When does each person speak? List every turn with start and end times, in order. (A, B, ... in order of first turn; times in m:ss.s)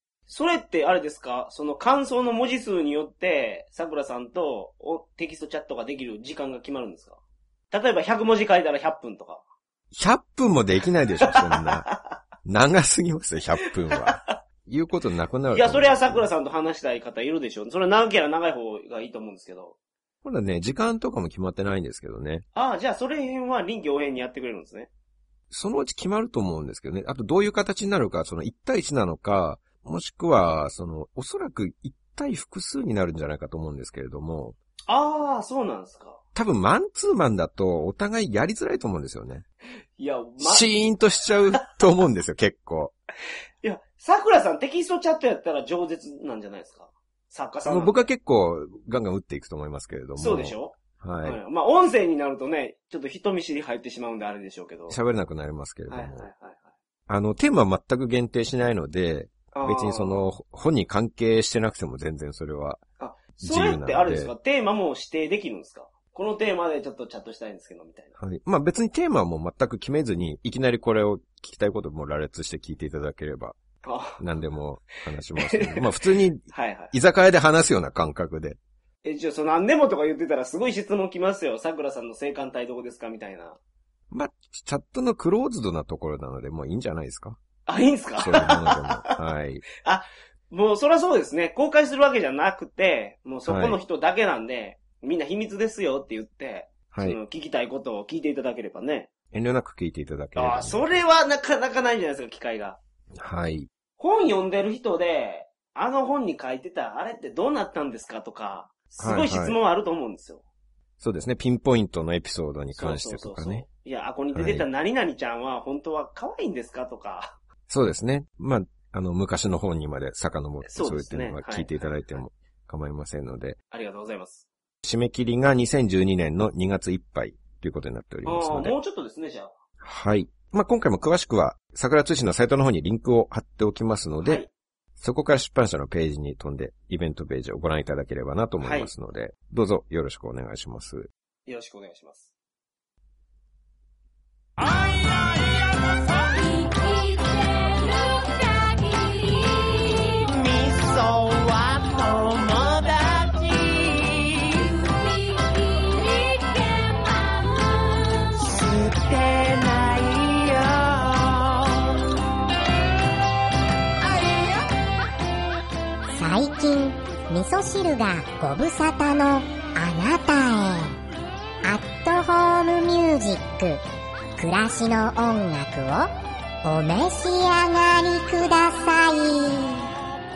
0:00.3-0:07.2 A
0:07.7-0:09.4 A
0:09.9-0:11.9 B
0:11.2-0:12.2 A
0:12.4-0:16.2 B
0:14.0-0:14.3 A
0:15.5-0:19.7 A
0:20.2-0:22.4 B
0:22.5-0:24.9 A
0:25.5-0:34.6 B
0:34.9-0:36.2 A
0:36.3-0:39.4 B
0:40.0-0:40.7 A
0:40.4-0:42.9 B
0:43.6-0:48.1 A
0:47.6-0:51.4 B
0:50.2-0:55.0 A
0:54.9-0:56.3 B
0:55.9-0:56.7 A
0:57.1-1:02.8 B
0:59.5-1:00.2 A
1:03.0-1:08.1 A
1:03.4-1:04.3 B
1:08.2-1:13.6 B
1:13.8-1:14.2 A
1:14.2-1:18.6 B
1:15.4-1:16.9 A
1:19.0-1:23.6 A
1:24.1-1:27.4 B
1:27.6-1:29.1 A
1:28.2-1:29.6 B
1:29.8-1:39.1 A
1:33.4-1:33.8 B
1:36.9-1:37.2 B
1:39.3-1:41.0 B
1:40.4-1:42.8 A
1:43.1-1:43.7 B
1:44.0-1:50.4 A
1:49.0-1:49.6 B
1:51.0-1:53.6 B
1:52.7-1:57.4 A
1:54.3-1:54.6 B
1:57.7-2:03.6 B
2:00.6-2:02.2 A
2:03.7-2:04.4 A
2:04.8-2:08.7 B
2:08.2-2:09.5 A
2:09.8-2:14.4 B
2:14.2-2:14.5 A
2:15.0-2:21.1 B
2:18.6-2:18.9 A
2:21.5-2:22.3 A
2:24.6-2:29.5 C
2:30.1-2:41.9 C
2:44.0-2:44.6 C
2:46.1-2:51.0 D
2:51.6-2:53.8 D
2:54.4-2:56.1 D
2:56.6-2:59.8 D